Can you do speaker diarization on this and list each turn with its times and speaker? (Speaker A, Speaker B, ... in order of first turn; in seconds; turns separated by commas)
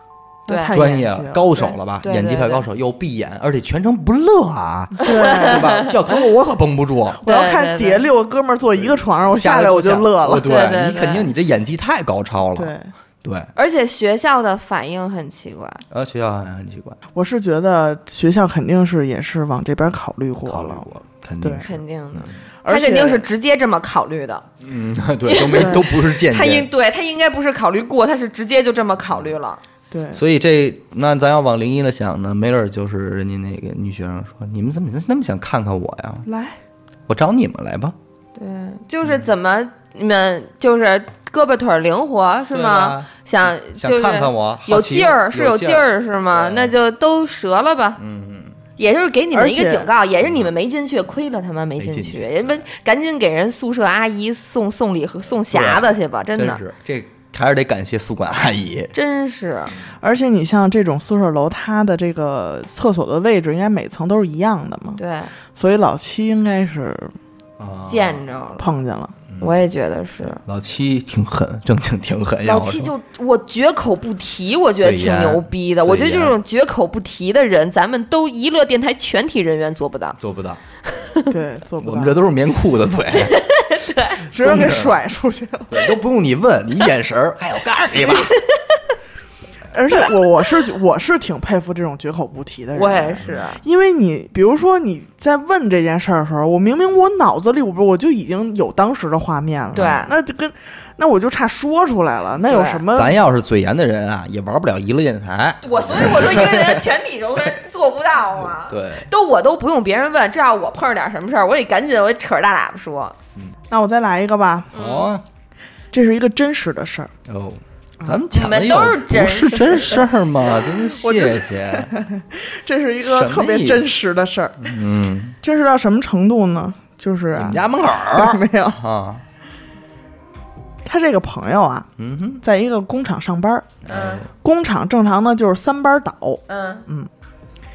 Speaker A: 0.5-1.8, Speaker B: 0.5-0.8, Speaker C: 0.7-7.2, Speaker B: 2.0-2.7, Speaker A: 5.0-5.9, Speaker B: 5.1-6.0, Speaker B: 7.2-8.1, Speaker A: 7.2-10.5, Speaker C: 8.8-13.5, Speaker B: 10.4-11.3, Speaker A: 12.6-12.9, Speaker B: 13.6-15.8, Speaker C: 15.9-17.0, Speaker A: 17.1-20.9, Speaker C: 20.5-22.4, Speaker A: 21.4-21.7, Speaker B: 21.6-24.5, Speaker A: 22.6-23.2, Speaker C: 24.6-26.7, Speaker B: 25.3-29.6, Speaker A: 25.6-25.8, Speaker A: 29.9-30.2, Speaker C: 30.1-36.3, Speaker A: 36.3-36.6, Speaker C: 37.1-38.0, Speaker B: 38.4-48.0, Speaker C: 42.5-46.8, Speaker C: 48.0-48.6, Speaker B: 48.8-56.6, Speaker A: 49.3-49.9, Speaker C: 50.2-50.5, Speaker C: 51.8-52.7, Speaker C: 55.5-58.9, Speaker B: 58.9-59.8, Speaker A: 60.0-65.0, Speaker B: 65.0-65.3, Speaker A: 65.5-67.1, Speaker C: 67.6-68.2, Speaker B: 67.9-68.7, Speaker A: 68.6-69.1, Speaker B: 69.4-70.4, Speaker C: 70.4-72.9, Speaker B: 72.5-80.2, Speaker C: 74.8-76.4, Speaker C: 80.2-80.6, Speaker B: 80.8-81.3, Speaker A: 81.3-82.2, Speaker C: 81.8-83.4, Speaker B: 83.2-84.2, Speaker A: 84.3-85.8, Speaker C: 84.3-85.0, Speaker C: 85.7-88.4, Speaker B: 88.0-88.8, Speaker A: 89.7-103.2, Speaker B: 92.8-93.6, Speaker B: 99.7-100.1, Speaker B: 102.4-102.8, Speaker C: 102.9-106.9, Speaker B: 105.6-113.2, Speaker C: 108.6-109.1, Speaker A: 113.7-114.7, Speaker B: 114.7-115.1, Speaker C: 114.7-115.2, Speaker A: 115.9-117.1, Speaker C: 117.3-121.9, Speaker B: 118.3-120.2, Speaker A: 120.8-124.7, Speaker C: 123.0-123.9, Speaker C: 124.6-125.4, Speaker A: 125.4-128.8, Speaker C: 127.4-129.2, Speaker A: 130.8-131.9, Speaker C: 132.0-132.4, Speaker A: 132.4-133.8, Speaker C: 133.9-134.3, Speaker B: 133.9-134.2, Speaker A: 134.4-137.1, Speaker B: 136.5-136.8